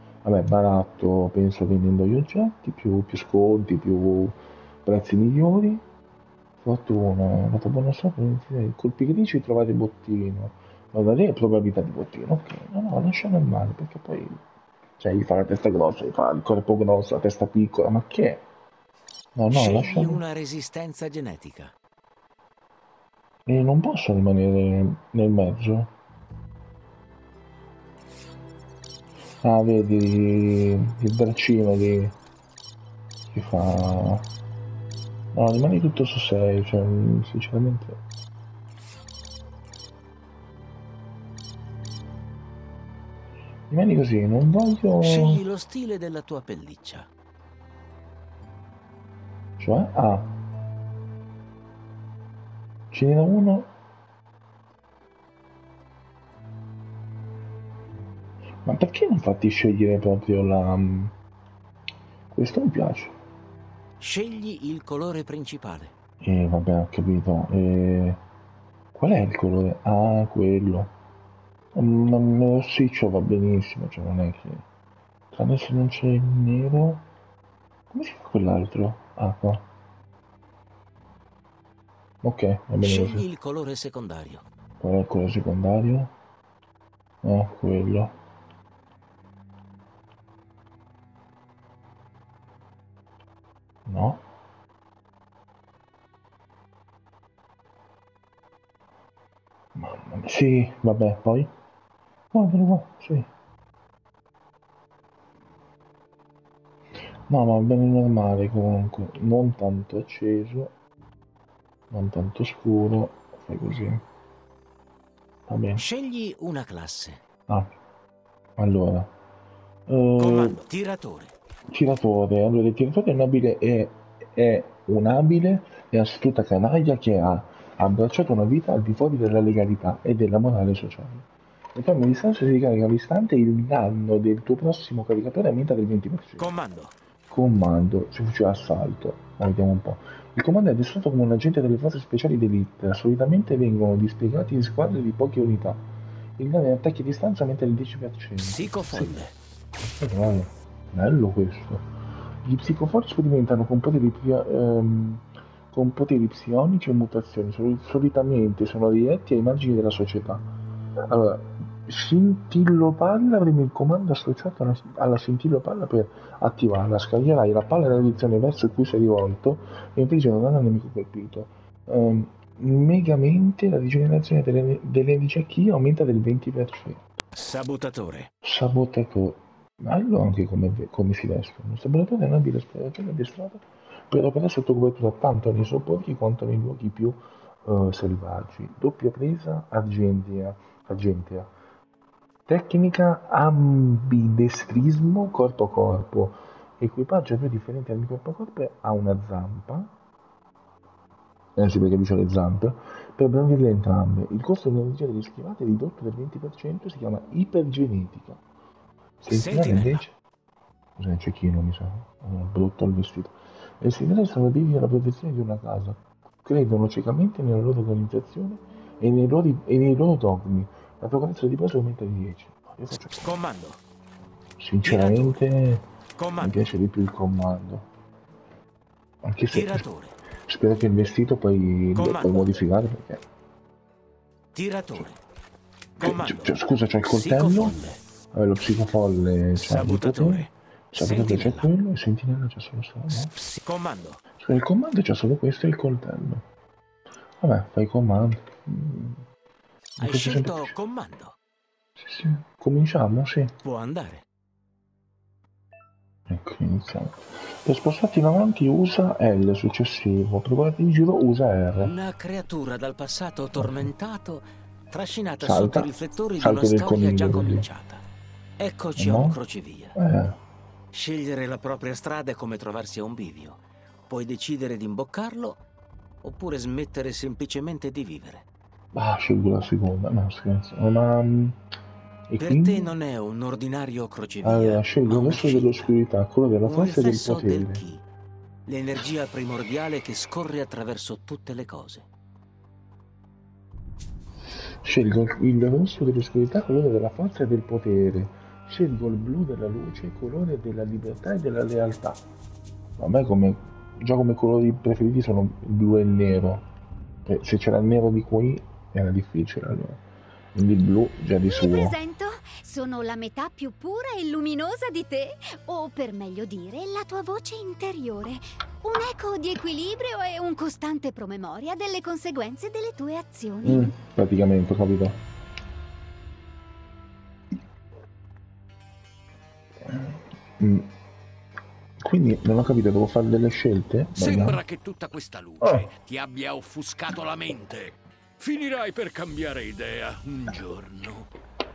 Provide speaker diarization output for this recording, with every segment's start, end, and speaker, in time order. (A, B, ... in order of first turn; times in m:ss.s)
0:00.2-0:05.8 A
0:06.6-0:14.4 A
0:15.0-0:18.4 A
0:19.4-0:20.2 A
0:19.5-0:21.7 B
0:23.5-0:25.9 A
0:29.4-0:32.2 A
0:33.3-0:34.3 A
0:35.3-0:38.0 A
0:43.7-0:45.4 A
0:45.0-0:47.1 B
0:49.6-0:50.3 A
0:52.9-0:53.7 A
0:58.6-1:01.1 A
1:02.3-1:03.2 A
1:04.0-1:05.9 B
1:06.2-1:08.2 A
1:08.9-1:10.9 A
1:11.7-1:14.6 A
1:15.3-1:17.0 A
1:17.9-1:19.6 A
1:22.2-1:23.2 A
1:22.8-1:24.4 B
1:24.8-1:26.1 A
1:27.2-1:28.1 A
1:33.9-1:34.2 A
1:39.8-1:41.5 A
1:42.3-1:43.3 A
1:47.3-1:50.7 A
1:51.9-1:54.0 A
1:55.5-1:55.9 A
1:55.8-1:57.2 B
1:58.6-1:59.1 A
1:59.9-2:00.6 A
2:00.2-2:01.3 B
2:01.7-2:16.5 A
2:16.4-2:17.0 B
2:17.3-2:25.8 A
2:26.4-2:29.2 A
2:28.4-2:29.3 B
2:30.0-2:31.8 A
2:32.4-2:40.5 A
2:41.1-2:57.0 A
2:57.4-2:58.3 B
2:58.4-3:11.5 A
3:12.5-3:19.9 A
3:21.6-3:28.4 A
3:29.2-3:30.2 A
3:29.3-3:30.0 B
3:31.0-3:43.4 A
3:43.2-3:43.8 B
3:44.6-3:45.9 A
3:44.8-3:45.4 B
3:46.2-3:46.6 B
3:46.4-3:47.9 A
3:49.2-3:49.9 A
3:49.5-3:50.2 B
3:50.5-3:53.2 A
3:52.0-3:52.5 B
3:54.5-3:55.2 B
3:56.0-3:58.0 B
3:56.0-3:57.8 A
3:58.3-4:03.3 A
3:59.6-4:01.7 B
4:03.2-4:04.2 B
4:04.4-4:06.4 A
4:07.4-4:09.2 A
4:10.0-4:11.4 B
4:10.0-4:10.7 A
4:12.0-4:13.5 A
4:13.6-4:14.2 B
4:16.3-4:21.9 A
4:21.8-4:28.0 B
4:23.6-4:23.9 A
4:25.4-4:27.7 A
4:28.6-4:30.0 B
4:29.0-4:29.4 A
4:30.0-4:30.4 A
4:30.9-4:35.6 B
4:36.2-4:38.4 B
4:38.9-4:41.6 A
4:42.3-4:42.9 A
4:42.4-4:45.9 B
4:44.4-4:47.8 A
4:46.6-4:48.0 B
4:48.7-4:52.1 B
4:54.5-5:02.2 A
5:03.0-5:06.7 A
5:07.2-5:10.0 A
5:10.6-5:12.0 A
5:11.5-5:23.9 C
5:23.6-5:25.2 A
5:29.8-5:30.9 A
5:32.0-5:34.6 A
5:34.2-5:41.3 D
5:35.6-5:35.9 A